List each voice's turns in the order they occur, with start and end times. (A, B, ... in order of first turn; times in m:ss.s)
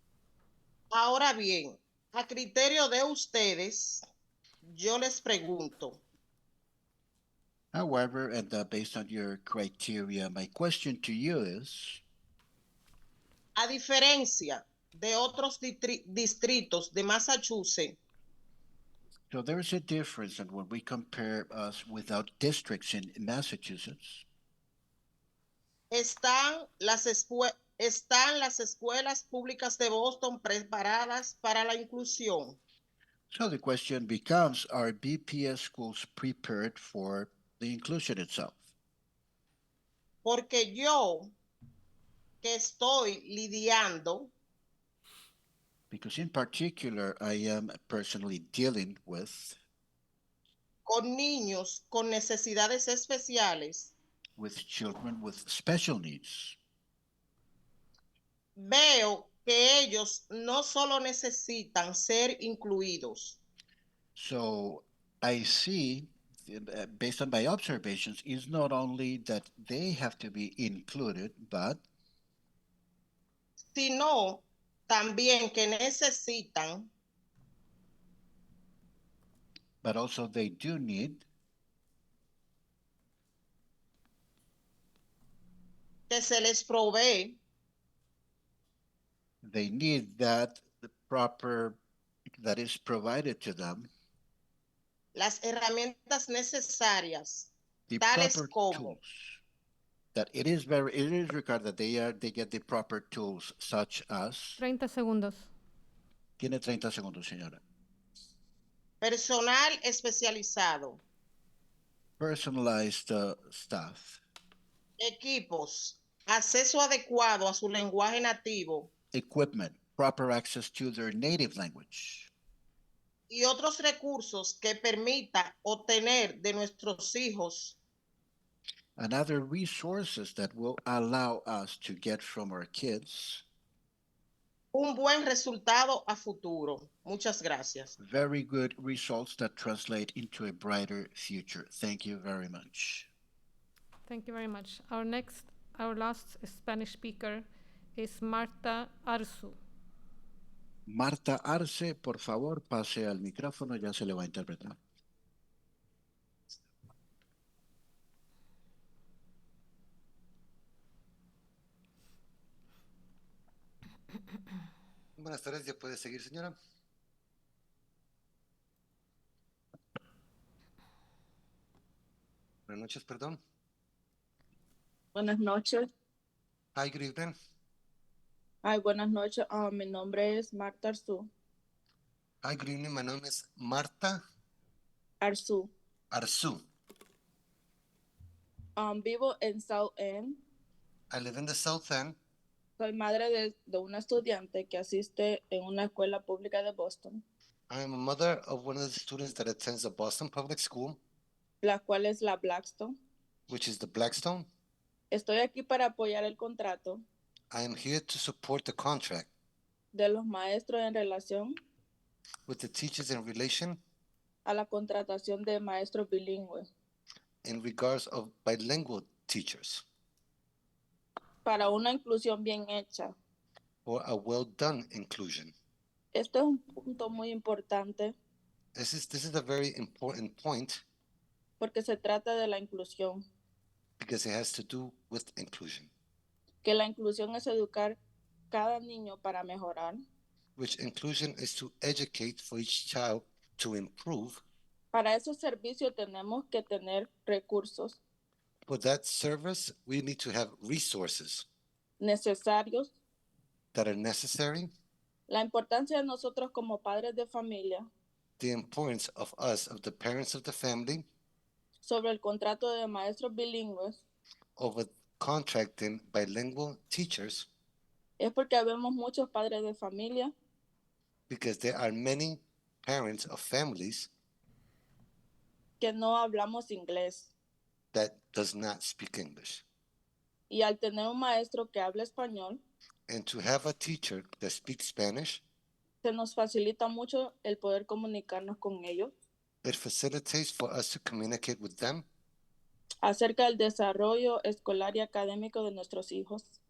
0:00.9-0:04.0 A
0:04.7-0:06.0 A
0:07.7-0:12.0 B
0:13.6-0:18.0 A
0:19.3-0:24.2 B
0:25.9-0:32.6 A
0:33.3-0:38.6 B
0:40.2-0:41.3 A
0:42.4-0:44.3 A
0:45.9-0:49.6 B
0:50.9-0:53.9 A
0:54.4-0:56.6 B
0:58.6-1:03.4 A
1:04.2-1:11.8 B
1:13.7-1:16.9 A
1:19.8-1:21.2 B
1:26.1-1:27.4 A
1:29.4-1:31.8 B
1:32.4-1:33.9 B
1:35.2-1:39.0 A
1:37.9-1:39.4 B
1:40.1-1:44.6 B
1:44.6-1:45.5 C
1:46.4-1:47.6 B
1:49.0-1:51.0 A
1:52.2-1:54.2 B
1:55.0-1:58.9 A
1:59.1-2:02.3 B
2:03.3-2:07.8 A
2:09.0-2:13.4 B
2:14.7-2:17.9 A
2:18.0-2:23.1 B
2:24.1-2:29.6 C
2:30.9-2:34.8 B
2:45.2-2:46.6 D
2:52.7-2:53.4 D
2:55.1-2:55.9 E
2:56.8-2:57.3 D
2:58.6-3:01.3 E
3:02.4-3:04.2 D
3:05.2-3:05.7 E
3:06.1-3:06.6 D
3:08.8-3:10.4 E
3:11.1-3:12.2 D
3:12.8-3:17.2 E
3:17.7-3:21.0 D
3:21.6-3:23.0 E
3:23.5-3:24.5 D
3:25.1-3:27.0 E
3:27.5-3:29.3 D
3:29.9-3:31.6 E
3:32.5-3:33.8 D
3:34.4-3:36.7 E
3:37.4-3:39.8 D
3:41.4-3:43.2 E
3:43.8-3:45.5 D
3:46.1-3:48.2 E
3:48.8-3:50.8 D
3:51.6-3:53.2 E
3:54.0-3:55.9 D
3:56.6-3:58.0 E
3:58.5-4:00.0 E
4:00.6-4:04.4 D
4:04.9-4:08.0 E
4:08.7-4:11.5 D
4:12.0-4:12.9 E
4:13.7-4:14.7 D
4:15.3-4:17.9 E
4:18.4-4:21.0 D
4:21.8-4:24.0 E
4:24.6-4:27.5 D
4:28.2-4:30.3 E
4:31.3-4:34.1 D
4:35.8-4:37.3 E
4:37.9-4:39.6 D
4:40.5-4:42.6 E
4:43.1-4:45.4 D
4:46.0-4:49.1 E
4:49.6-4:52.1 D
4:53.0-4:56.5 E